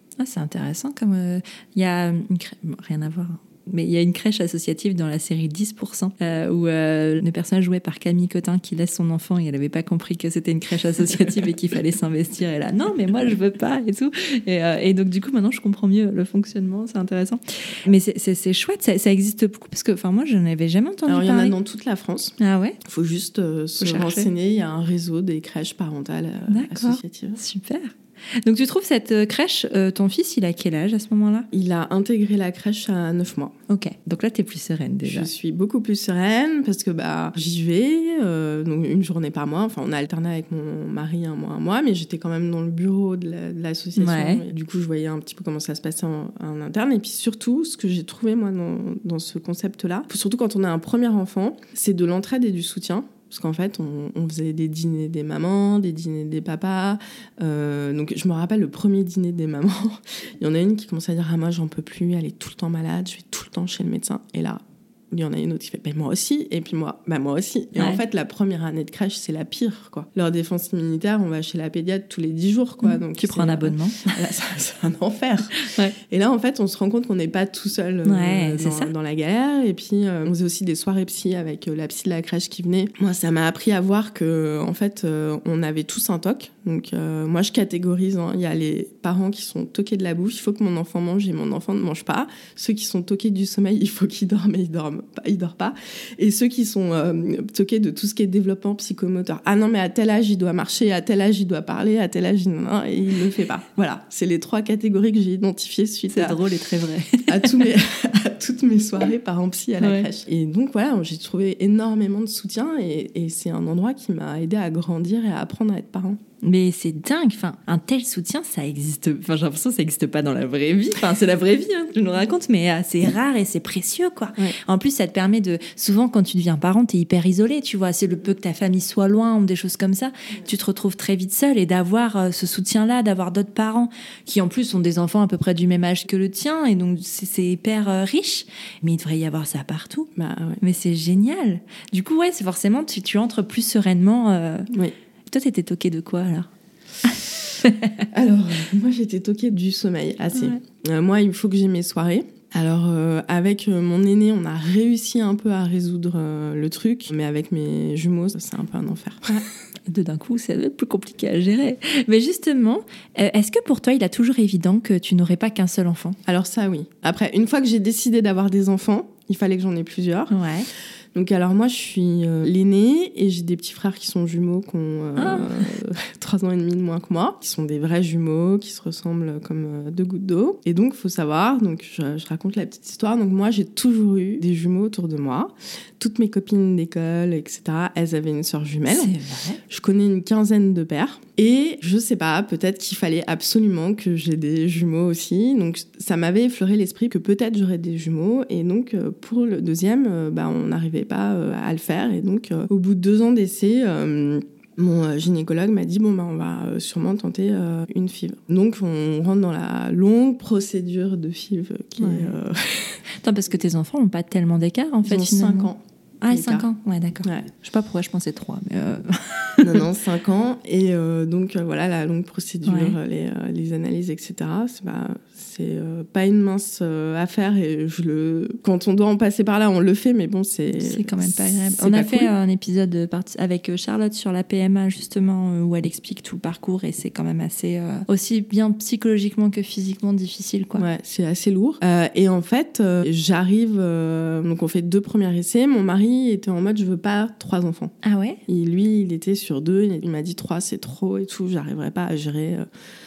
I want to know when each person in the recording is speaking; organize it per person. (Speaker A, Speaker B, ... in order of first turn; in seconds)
Speaker A: 0.2-21.6, 22.4-22.8, 23.8-24.3, 26.5-31.5, 33.7-35.3, 44.0-44.5, 72.8-74.2, 75.6-76.0, 78.0-78.9, 106.1-107.7, 109.8-110.1, 116.4-140.1, 140.6-144.7, 145.3-146.5, 147.0-148.1, 150.3-150.6, 159.3-166.2, 170.3-170.7, 175.2-175.7, 188.9-189.6, 212.0-212.3, 213.2-219.8, 222.7-223.0, 230.8-240.9, 248.0-248.4
Speaker B: 21.1-27.4, 31.5-33.5, 35.0-106.4, 107.3-116.2, 140.2-140.6, 148.1-159.3, 166.3-170.4, 171.1-189.2, 189.7-213.0, 215.1-216.7, 219.6-232.3, 240.8-247.9, 248.5-252.7